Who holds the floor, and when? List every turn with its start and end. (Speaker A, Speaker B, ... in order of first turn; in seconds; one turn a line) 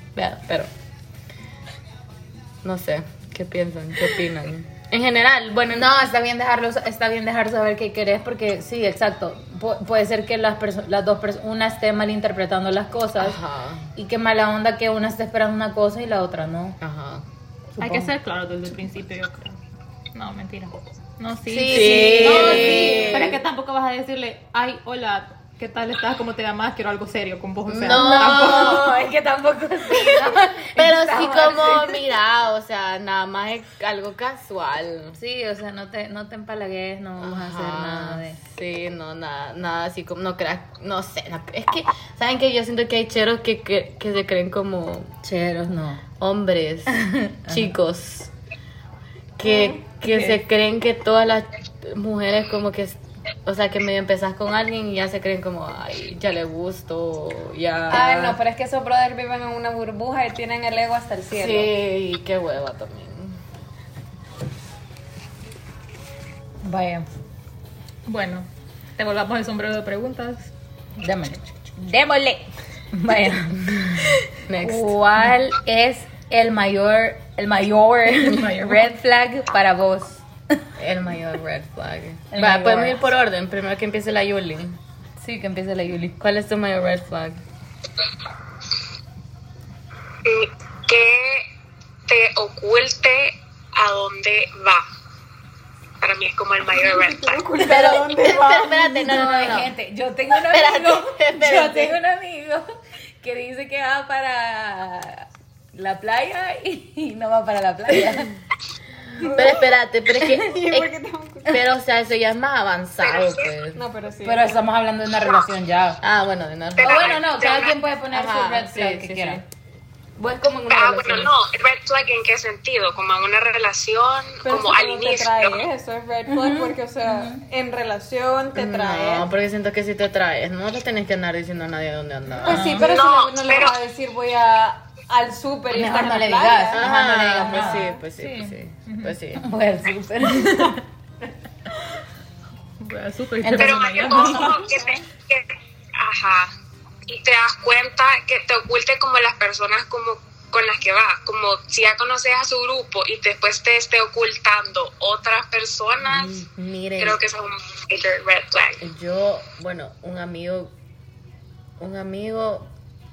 Speaker A: 0.1-0.7
Speaker A: 2.6-5.9
Speaker B: 5.7-13.4
Speaker A: 13.2-13.9
Speaker B: 14.0-16.8
Speaker A: 16.8-17.2
Speaker B: 17.8-18.1
Speaker C: 17.8-19.6
Speaker C: 20.1-28.9
Speaker A: 21.5-23.4
Speaker B: 21.7-23.2
Speaker A: 27.7-29.0
Speaker B: 27.9-32.0
Speaker A: 29.9-35.2
Speaker B: 35.2-38.4
Speaker A: 37.2-45.1
Speaker B: 45.2-46.0
Speaker A: 46.2-48.3
Speaker B: 46.9-47.7
Speaker A: 49.4-58.4
Speaker D: 49.4-50.4
Speaker D: 57.9-61.7
Speaker A: 61.3-63.4
Speaker B: 66.6-67.1
Speaker C: 68.1-70.5
Speaker B: 71.0-80.2
Speaker A: 74.5-74.9
Speaker C: 78.1-78.9
Speaker A: 80.8-84.8
Speaker B: 82.3-83.1
Speaker B: 85.2-86.2
Speaker A: 86.2-87.4
Speaker E: 90.2-91.5
Speaker E: 92.1-94.9
Speaker E: 96.0-97.4
Speaker D: 96.7-98.8
Speaker A: 97.6-99.7
Speaker B: 99.0-102.7
Speaker A: 100.3-102.0
Speaker B: 103.2-108.3
Speaker D: 109.2-109.7
Speaker A: 109.2-111.0
Speaker D: 110.2-111.6
Speaker A: 111.5-113.8
Speaker E: 113.0-113.5
Speaker D: 113.7-114.6
Speaker B: 114.2-116.0
Speaker A: 116.0-117.2
Speaker E: 116.8-117.8
Speaker B: 116.8-119.4
Speaker A: 118.1-119.5
Speaker A: 120.2-121.3
Speaker E: 120.7-125.6
Speaker D: 124.4-129.3
Speaker B: 126.4-127.5
Speaker A: 128.6-132.8
Speaker D: 132.4-136.8
Speaker C: 132.5-132.9
Speaker E: 132.8-133.8
Speaker B: 135.7-137.9
Speaker A: 136.7-139.5
Speaker C: 137.5-139.2
Speaker B: 139.4-140.8
Speaker C: 140.2-140.8
Speaker C: 142.8-144.6
Speaker B: 143.4-144.5
Speaker E: 143.6-146.5
Speaker D: 144.5-144.9
Speaker E: 147.1-156.4
Speaker A: 156.1-157.2
Speaker E: 157.0-158.8
Speaker A: 158.8-160.7
Speaker A: 161.8-162.7